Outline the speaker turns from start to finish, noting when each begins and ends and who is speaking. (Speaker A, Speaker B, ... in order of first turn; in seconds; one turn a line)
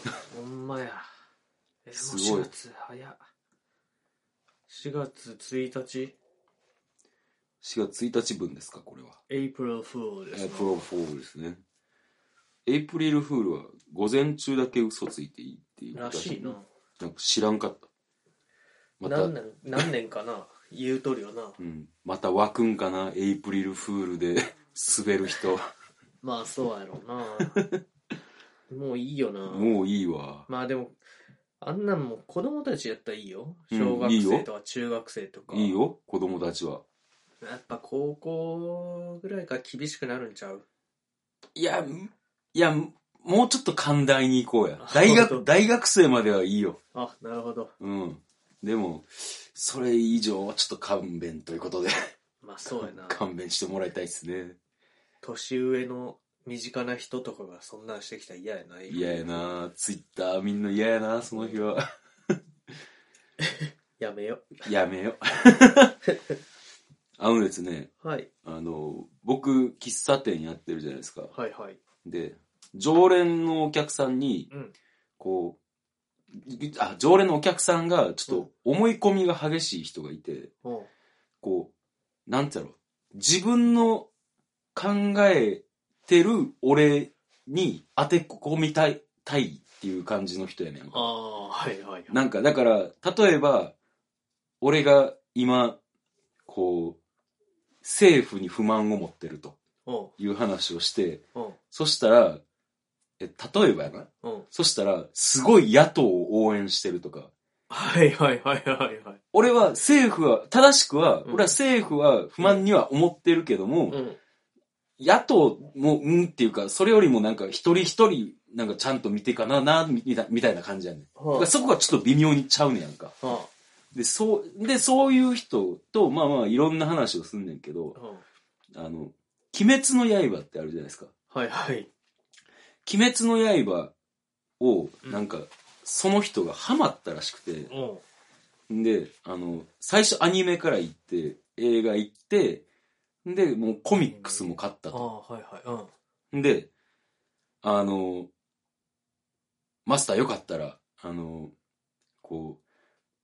Speaker A: 0.3-1.0
Speaker A: 1.8-3.2
Speaker B: 1.9-2.5
Speaker A: 4.7-6.1
Speaker B: 7.6-9.2
Speaker A: 9.3-10.9
Speaker B: 10.3-11.6
Speaker B: 12.7-17.9
Speaker A: 15.9-16.6
Speaker B: 19.0-19.3
Speaker A: 19.0-21.6
Speaker B: 21.6-25.6
Speaker A: 26.2-27.6
Speaker A: 28.7-29.7
Speaker B: 29.5-30.4
Speaker A: 30.5-31.0
Speaker A: 31.6-35.8
Speaker B: 33.7-34.5
Speaker B: 35.5-36.8
Speaker A: 37.4-40.6
Speaker B: 41.5-46.8
Speaker A: 44.8-45.5
Speaker A: 46.9-47.7
Speaker B: 47.8-51.9
Speaker A: 52.4-53.2
Speaker B: 52.8-54.6
Speaker A: 55.2-59.5
Speaker B: 58.9-62.4
Speaker A: 61.3-61.6
Speaker A: 63.5-64.6
Speaker B: 64.6-66.0
Speaker B: 67.2-67.9
Speaker A: 68.0-68.3
Speaker B: 68.4-71.3
Speaker A: 71.3-71.8
Speaker B: 72.0-74.5
Speaker B: 75.2-75.6
Speaker B: 76.3-80.5
Speaker A: 80.6-80.9
Speaker B: 81.4-81.7
Speaker B: 82.3-84.1
Speaker B: 84.7-91.1
Speaker A: 90.9-92.2
Speaker B: 92.1-93.7
Speaker B: 94.6-95.8
Speaker B: 96.5-97.0
Speaker B: 97.8-99.5
Speaker A: 99.8-100.1
Speaker B: 100.2-102.4
Speaker B: 103.2-107.3
Speaker A: 107.7-109.2
Speaker B: 109.3-114.0
Speaker A: 111.2-111.5
Speaker A: 113.9-114.2
Speaker B: 115.0-123.1
Speaker A: 121.2-121.5
Speaker A: 123.2-123.5
Speaker B: 123.9-128.0
Speaker A: 127.9-128.2
Speaker B: 128.7-131.1
Speaker A: 131.3-131.9
Speaker B: 132.8-133.9
Speaker B: 134.6-137.7
Speaker A: 137.7-138.0
Speaker B: 138.7-142.6
Speaker B: 143.2-145.0
Speaker A: 144.0-145.9
Speaker B: 146.3-146.7
Speaker B: 147.6-148.3
Speaker B: 149.8-151.5
Speaker B: 152.2-152.6